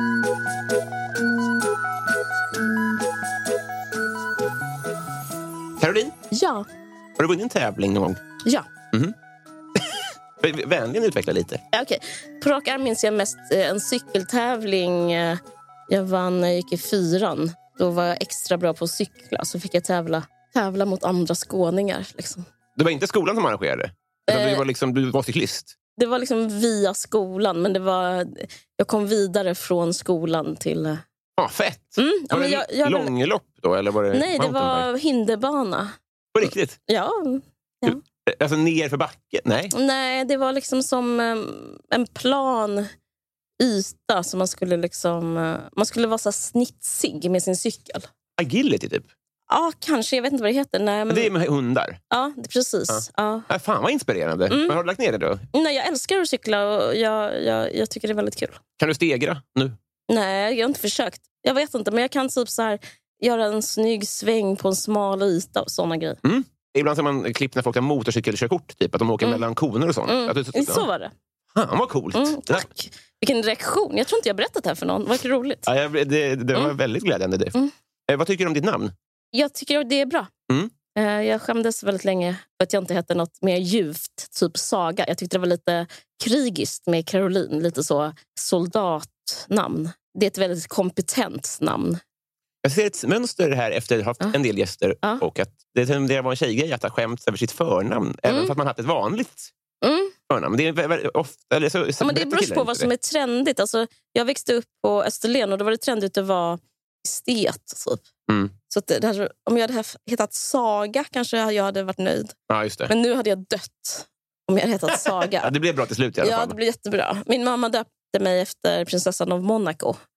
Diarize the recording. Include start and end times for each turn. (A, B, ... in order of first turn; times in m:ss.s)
0:05.8-0:06.2 A
0:06.3-0:06.7 B
0:07.2-0:08.2 A
0:09.8-0:11.6 A
0:11.7-0:22.5 B
0:22.8-0:25.7 A
0:24.3-0:24.6 B
0:26.0-0:31.0 B
0:31.4-0:34.9 A
0:32.0-0:33.1 B
0:34.1-0:38.0 B
0:36.3-0:36.8 A
0:37.9-0:39.7 A
0:39.7-0:42.9 B
0:43.6-0:48.1 B
0:48.4-0:49.1 A
0:49.5-0:51.3 B
0:51.1-0:52.0 A
0:52.1-0:53.5 B
0:52.9-0:55.4 A
0:54.5-0:54.8 B
0:55.5-0:58.6 B
0:58.8-0:59.8 A
1:00.1-1:06.2 B
1:06.2-1:10.9 A
1:10.1-1:11.1 B
1:11.6-1:12.7 A
1:12.1-1:15.7 B
1:15.7-1:17.6 A
1:18.1-1:18.9 A
1:19.3-1:20.3 B
1:21.0-1:32.0 B
1:32.6-1:39.5 A
1:38.3-1:38.5 B
1:39.8-1:40.1 B
1:40.3-1:42.9 A
1:42.0-1:48.0 B
1:48.3-1:48.5 A
1:48.7-1:52.3 B
1:52.5-1:52.9 A
1:52.9-1:55.5 B
1:55.4-1:56.6 A
1:56.2-2:00.0 B